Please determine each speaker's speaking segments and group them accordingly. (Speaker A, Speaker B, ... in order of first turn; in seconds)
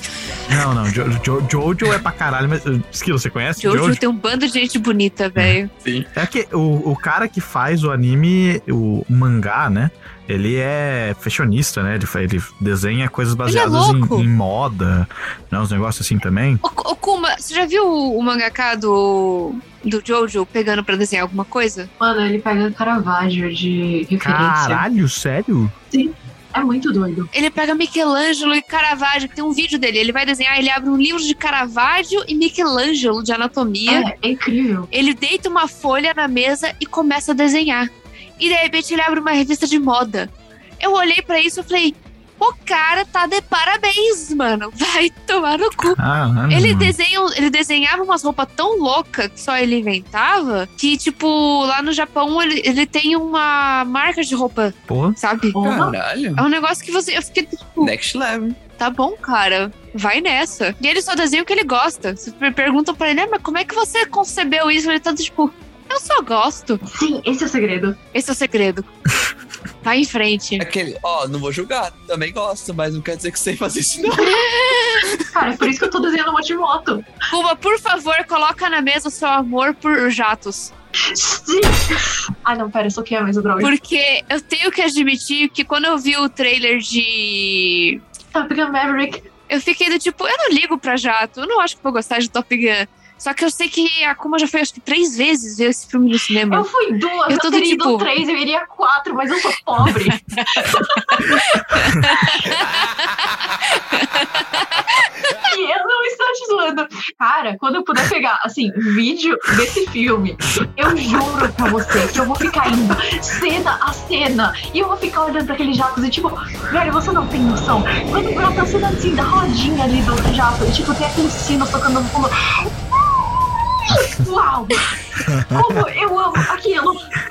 Speaker A: 0.5-4.0, 6.1-16.6, 24.2-25.7, 45.9-47.0, 54.9-55.2, 125.2-125.6
Speaker B: 3.6-5.7, 13.4-14.3, 16.6-21.9, 27.3-34.1, 34.9-46.0, 46.5-55.5, 56.4-57.9, 58.8-66.8, 68.1-68.9, 69.8-70.6, 74.2-75.0, 77.3-80.7, 83.6-88.0, 89.5-96.7, 97.3-98.1, 100.4-105.3
Speaker C: 5.8-6.1, 55.6-56.4, 57.8-58.6, 70.6-74.4
Speaker D: 22.0-24.9, 25.9-27.3, 33.9-34.9, 55.5-55.9, 66.8-68.0, 75.3-77.1, 81.1-83.7, 88.3-89.3, 96.5-101.3, 105.4-124.9, 125.5-127.1